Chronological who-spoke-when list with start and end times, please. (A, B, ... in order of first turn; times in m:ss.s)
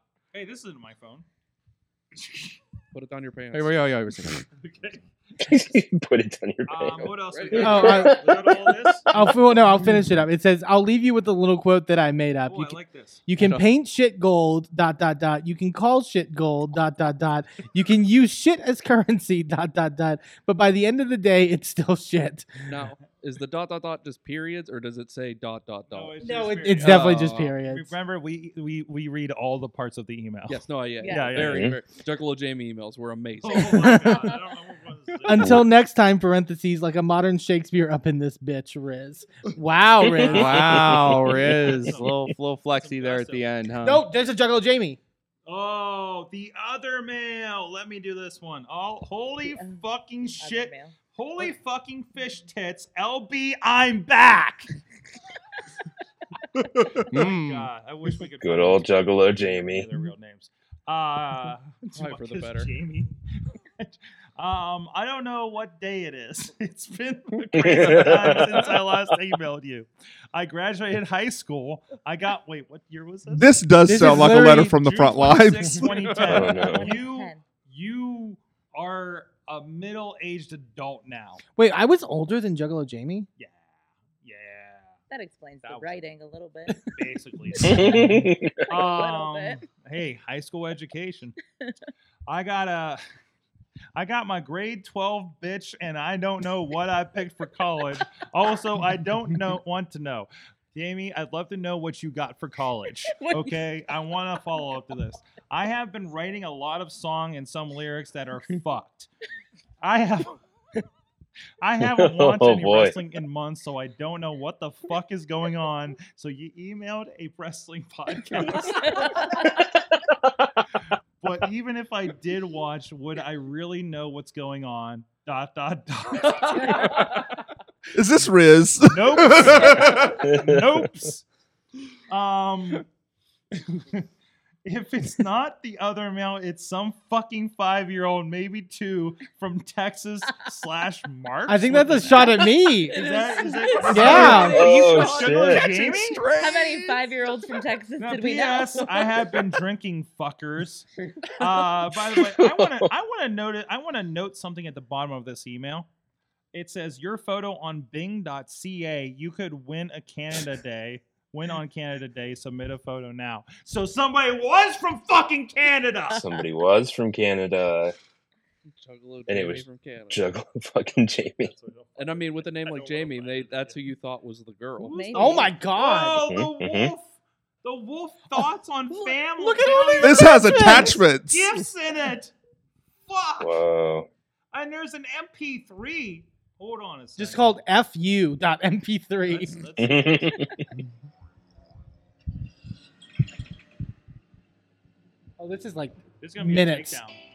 0:00.3-0:01.2 A
0:02.9-0:03.7 B
0:03.5-0:04.4 C
0:04.6-0:05.0 A
0:05.4-0:08.9 D
0:06.6-0:09.4 A
0:07.3-0:07.8 B
0:07.6-0:08.2 E
0:09.1-0:22.5 E
0:12.5-0:13.2 A
0:22.6-0:27.6 B
0:25.9-0:31.7 A
0:26.2-0:27.9 E
0:30.5-0:34.3 B
0:31.0-0:31.4 F
0:31.4-0:31.8 D
0:33.4-0:35.6 A
0:33.7-0:34.2 E
0:35.2-0:40.7 E
0:35.4-0:35.6 D
0:40.0-0:41.0 D
0:40.3-0:44.0 C
0:41.2-0:43.6 A
0:43.8-0:45.0 E
0:45.4-0:54.7 A
0:49.6-0:49.8 F
0:50.4-0:50.9 F
0:57.1-0:57.7 C
0:57.1-1:03.1 A
0:58.4-0:59.9 D
1:01.9-1:02.7 B
1:03.8-1:21.4 A
1:07.5-1:08.7 D
1:13.3-1:16.1 G
1:13.8-1:14.8 E
1:16.2-1:17.0 D
1:16.5-1:17.4 F
1:21.6-1:23.3 E
1:23.4-1:25.0 A
1:25.1-1:26.9 F
1:25.6-1:26.0 A
1:26.9-1:31.3 A
1:27.6-1:28.6 D
1:28.7-1:29.6 F
1:32.3-1:33.0 A
1:34.0-1:49.1 A
1:43.1-1:43.7 F
1:49.8-1:50.4 A
1:51.6-1:59.3 A
1:51.8-1:53.0 D
1:58.5-1:59.2 F
2:01.2-2:07.2 A
2:07.9-2:10.2 G
2:08.9-2:11.2 A
2:10.2-2:10.8 D
2:12.1-2:12.8 A
2:13.7-2:14.0 A
2:14.6-2:26.3 A
2:21.5-2:23.1 E
2:22.2-2:24.5 F
2:23.8-2:24.6 E
2:24.0-2:27.1 C
2:24.3-2:25.7 D
2:26.3-2:29.3 F
2:28.0-2:30.9 A
2:31.4-2:35.9 A
2:32.1-2:32.9 D
2:36.5-2:46.2 A
2:46.1-2:47.9 D
2:48.8-2:50.3 B
2:49.3-2:51.5 D
2:51.4-2:53.8 A
2:52.0-2:55.0 B
2:54.8-2:57.1 A
2:54.9-2:55.5 F
2:55.1-2:56.2 E
2:56.2-2:56.9 D
2:57.6-3:02.3 A
2:59.4-3:01.0 E
3:00.0-3:01.7 G
3:03.1-3:03.6 A
3:03.4-3:04.1 D
3:04.5-3:07.5 A
3:07.2-3:09.6 E
3:09.2-3:10.4 A
3:09.8-3:10.5 D
3:15.4-3:17.0 E
3:16.2-3:17.2 A